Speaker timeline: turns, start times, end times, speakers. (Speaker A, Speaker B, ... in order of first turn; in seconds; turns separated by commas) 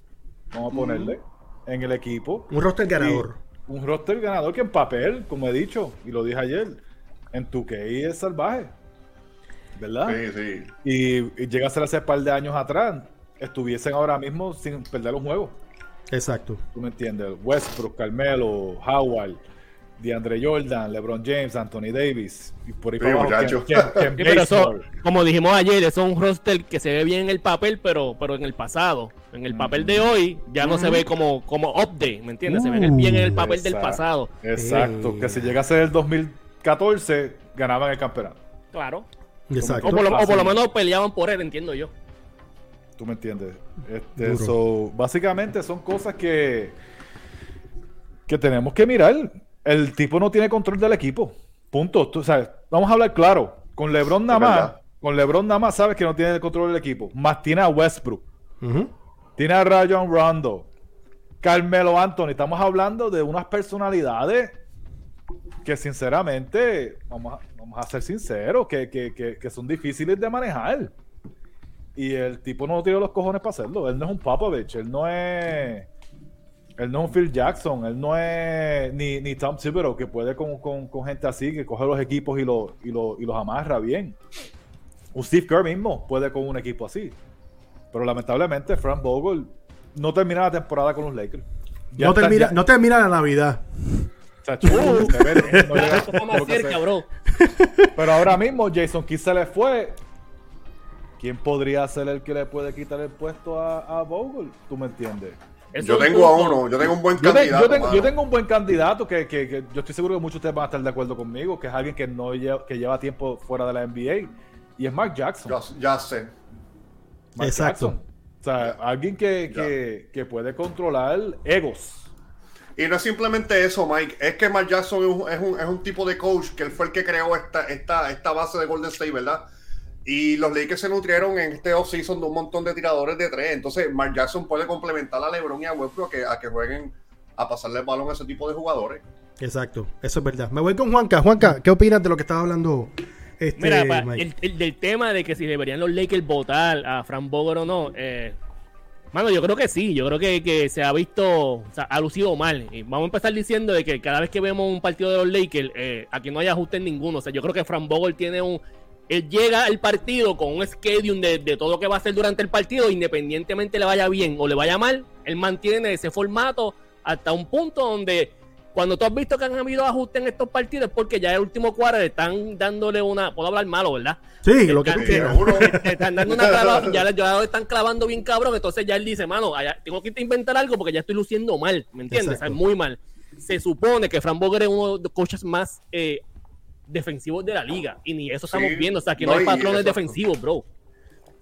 Speaker A: 0.5-6.8, Speaker B: 0.7-1.1, Speaker C: 2.5-3.4, Speaker A: 7.3-8.7, Speaker A: 9.8-10.2, Speaker B: 10.0-10.7, Speaker A: 10.8-15.6, Speaker C: 16.1-16.6, Speaker A: 16.7-19.4, Speaker A: 20.0-24.9, Speaker B: 23.0-24.1, Speaker D: 24.2-34.3, Speaker C: 29.6-30.0, Speaker C: 30.6-31.0, Speaker C: 32.5-33.5, Speaker A: 33.5-38.4, Speaker C: 34.5-35.5, Speaker D: 38.7-39.0, Speaker C: 39.5-40.0, Speaker A: 39.6-40.6, Speaker D: 39.8-41.9, Speaker A: 43.0-46.8, Speaker C: 44.2-44.5, Speaker A: 48.3-58.2, Speaker B: 54.4-54.7, Speaker C: 58.6-58.9, Speaker A: 59.4-60.7, Speaker A: 61.4-64.6, Speaker A: 65.6-70.9, Speaker A: 72.0-75.9, Speaker A: 76.8-84.2, Speaker A: 85.1-87.2, Speaker A: 87.9-92.6, Speaker C: 92.0-94.1, Speaker A: 94.4-96.8, Speaker C: 94.6-96.0, Speaker D: 95.5-97.0, Speaker C: 97.3-97.9, Speaker A: 97.9-100.0, Speaker A: 101.2-105.4, Speaker D: 105.7-106.6, Speaker B: 105.8-108.1, Speaker A: 107.2-115.6, Speaker B: 115.5-116.3, Speaker A: 117.3-122.1, Speaker C: 117.4-118.0, Speaker B: 122.8-129.4, Speaker B: 130.0-139.0, Speaker C: 139.4-144.2, Speaker D: 143.6-148.3, Speaker D: 149.1-186.2, Speaker C: 174.4-175.8, Speaker B: 174.9-175.8, Speaker B: 176.3-176.9, Speaker C: 182.1-182.6, Speaker D: 186.9-190.6, Speaker B: 188.5-190.2